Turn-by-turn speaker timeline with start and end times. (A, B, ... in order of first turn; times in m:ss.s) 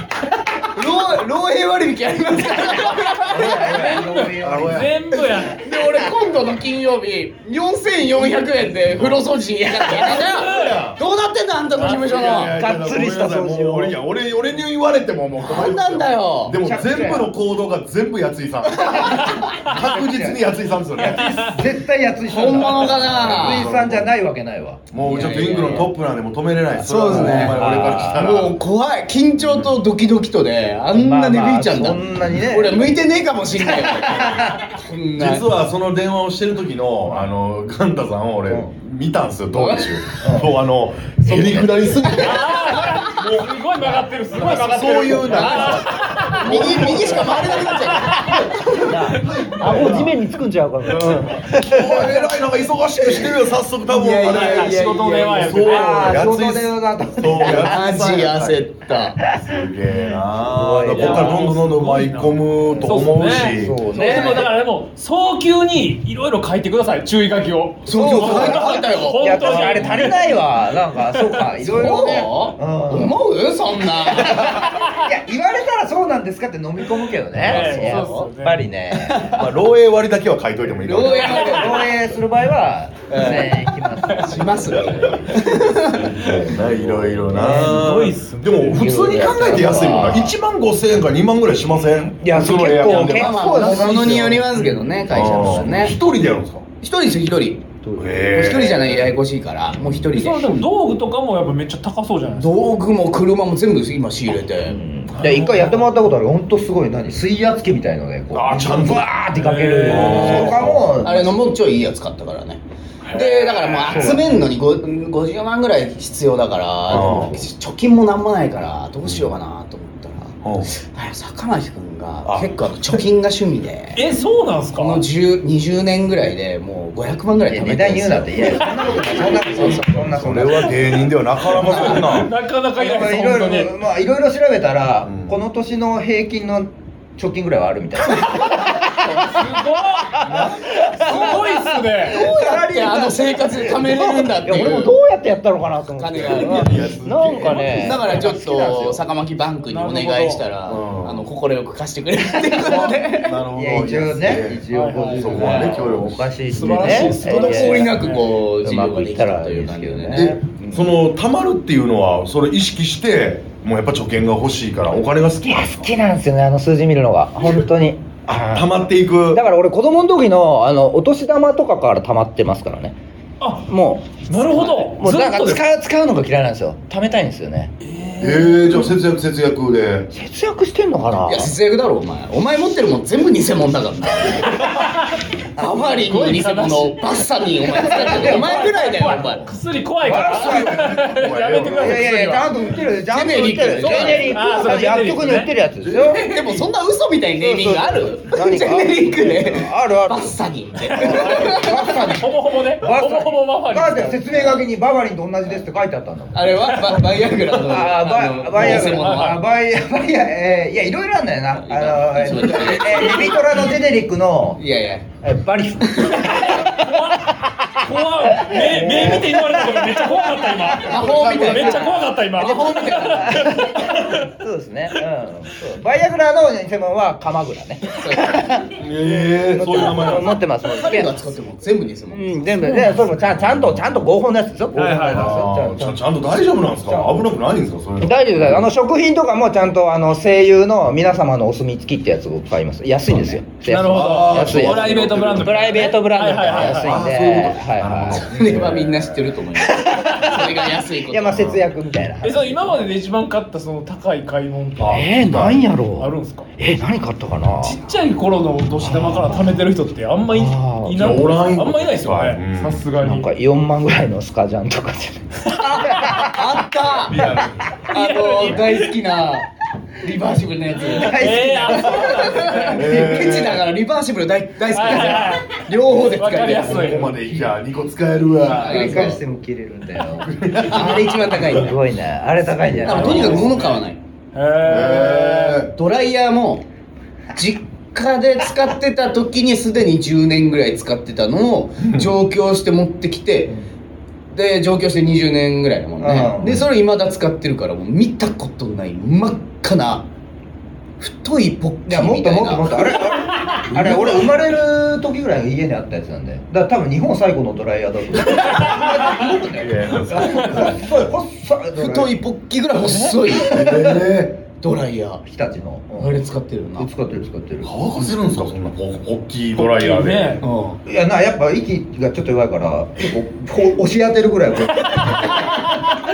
0:00.5-0:04.0 A
0:03.0-0:05.6 B
0:03.3-0:04.9 C
0:04.4-0:05.0 D
0:05.4-0:12.5 A
0:09.9-0:11.0 D
0:10.0-0:10.8 B
0:11.8-0:12.4 B
0:11.8-0:21.6 D
0:12.5-0:14.0 C
0:15.4-0:16.6 A
0:16.6-0:17.3 C
0:18.8-0:19.3 A
0:18.8-0:20.4 C
0:21.0-0:25.9 C
0:22.2-0:23.7 A
0:22.7-0:24.1 D
0:24.9-0:28.6 D
0:25.0-0:25.9 A
0:26.8-0:35.5 A
0:27.1-0:28.3 C
0:29.4-0:29.7 D
0:30.9-0:33.0 C
0:33.6-0:34.7 C
0:35.2-0:42.5 D
0:39.5-0:40.0 A
0:40.2-0:40.5 C
0:41.2-0:41.9 C
0:42.0-0:42.4 A
0:42.2-0:48.4 B
0:44.4-0:47.6 D
0:45.2-0:49.0 A
0:48.6-0:50.2 D
0:48.7-0:52.3 C
0:50.8-0:58.6 D
0:53.9-0:55.6 A
0:54.2-0:56.3 B
0:55.6-0:57.9 C
0:57.3-0:59.2 A
0:59.2-1:03.8 D
1:00.1-1:01.4 C
1:00.9-1:10.5 B
1:02.7-1:02.9 C
1:03.5-1:04.5 C
1:07.8-1:09.6 A
1:07.9-1:08.8 D
1:07.9-1:13.2 C
1:09.5-1:10.1 D
1:11.0-1:11.4 B
1:11.6-1:14.7 A
1:14.1-1:19.4 C
1:17.4-1:18.6 B
1:17.4-1:17.8 D
1:17.5-1:18.3 A
1:18.9-1:19.5 A
1:19.3-1:21.5 D
1:20.8-1:21.9 A
1:21.2-1:25.2 C
1:21.3-1:21.8 B
1:23.1-1:26.3 A
1:25.1-1:36.6 D
1:26.6-1:27.9 C
1:27.3-1:28.8 B
1:28.6-1:30.3 C
1:32.2-1:35.9 C
1:32.8-1:36.0 A
1:36.8-1:37.6 A
1:37.8-1:38.3 C
1:38.0-1:39.1 D
1:38.3-1:40.6 A
1:39.8-1:40.1 D
1:40.1-1:42.6 B
1:42.4-1:44.8 A
1:44.6-1:51.5 C
1:45.1-1:45.9 D
1:48.3-1:49.1 D
1:49.3-1:50.6 B
1:49.8-1:51.0 D
1:50.1-2:04.0 A
1:53.0-1:54.3 D
1:53.9-1:54.4 C
1:56.9-1:57.4 D
1:59.0-1:59.3 D
2:00.4-2:00.7 D
2:02.2-2:02.5 D
2:03.9-2:05.0 B
2:04.8-2:09.9 A
2:07.5-2:29.0 C
2:09.6-2:12.3 D
2:11.5-2:13.7 B
2:15.0-2:15.4 D
2:18.1-2:22.2 B
2:18.8-2:19.2 A
2:20.2-2:21.4 D
2:22.0-2:24.9 A
2:24.6-2:24.8 D
2:26.0-2:33.4 A
2:26.2-2:28.0 D
2:29.7-2:30.4 B
2:30.7-2:31.3 D
2:32.5-2:36.3 D
2:33.5-2:40.9 C
2:34.7-2:35.8 B
2:36.5-2:38.3 B
2:36.8-2:40.3 A
2:40.1-2:45.9 D
2:45.4-2:48.7 C
2:48.3-2:49.4 D
2:49.3-2:53.0 C
2:53.4-2:55.6 B
2:53.6-2:57.7 C
2:57.8-2:58.8 B
2:58.2-3:00.1 D
3:00.1-3:01.5 C
3:01.2-3:04.9 A
3:04.6-3:05.2 B
3:05.6-3:09.5 A
3:05.9-3:12.6 B
3:07.9-3:08.7 C
3:10.0-3:11.0 C
3:10.1-3:12.1 D
3:11.6-3:16.4 C
3:13.1-3:14.4 A
3:13.8-3:15.5 B
3:15.8-3:16.6 D
3:16.0-3:22.0 A
3:17.4-3:34.6 C
3:21.0-3:24.4 B
3:24.3-3:24.6 A
3:26.3-3:29.4 A
3:28.6-3:29.4 B
3:31.6-3:33.7 A
3:34.6-3:35.1 A
3:35.2-3:41.9 C
3:36.1-3:36.4 A
3:36.2-3:44.3 B
3:38.8-3:39.2 D
3:40.8-3:43.5 A
3:41.1-3:41.6 D
3:43.1-3:48.7 C
3:47.9-3:48.6 A
3:48.7-3:50.4 D
3:49.4-3:51.1 C
3:50.6-3:52.8 A
3:52.1-3:56.0 C
3:52.7-3:53.0 B
3:53.4-3:53.8 D
3:54.7-3:55.4 B
3:55.1-3:58.7 D
3:56.8-3:57.2 C
3:58.0-4:08.7 C
4:03.1-4:03.4 A
4:03.6-4:07.1 B
4:03.8-4:05.8 D
4:06.5-4:09.3 D
4:08.1-4:11.6 A
4:09.6-4:12.9 C
4:11.3-4:11.6 D
4:12.2-4:15.1 B
4:14.8-4:15.6 D
4:14.9-4:17.8 C
4:16.0-4:16.5 B
4:17.6-4:23.3 B
4:18.8-4:19.6 C
4:20.3-4:21.1 C
4:20.9-4:22.8 D
4:23.0-4:26.5 C
4:25.6-4:29.5 A
4:27.1-4:27.7 D
4:27.9-4:28.9 B
4:30.0-4:37.1 A
4:30.9-4:32.8 B
4:30.9-4:33.3 C
4:32.7-4:33.6 D
4:34.7-4:37.2 B
4:36.6-4:39.2 D
4:38.4-4:39.2 A
4:38.6-4:43.5 C
4:40.2-4:41.6 D
4:40.6-4:41.8 A
4:42.8-4:44.0 A
4:42.8-4:43.8 B
4:42.9-4:43.5 D
4:44.3-4:45.6 B
4:44.6-4:45.7 D
4:45.7-4:46.6 A
4:47.4-4:53.5 A
4:51.8-4:52.1 D
4:54.3-5:00.1 A
4:56.0-4:56.6 C
5:01.0-5:03.0 A
5:01.9-5:12.1 C
5:03.6-5:04.5 D
5:09.4-5:10.9 D
5:11.7-5:15.2 A
5:13.3-5:14.0 C
5:13.4-5:14.4 D
5:15.2-5:16.2 C
5:16.0-5:16.9 A
5:16.8-5:17.7 C
5:17.6-5:20.4 D
5:19.6-5:20.4 B
5:20.4-5:20.8 A
5:20.8-5:25.9 C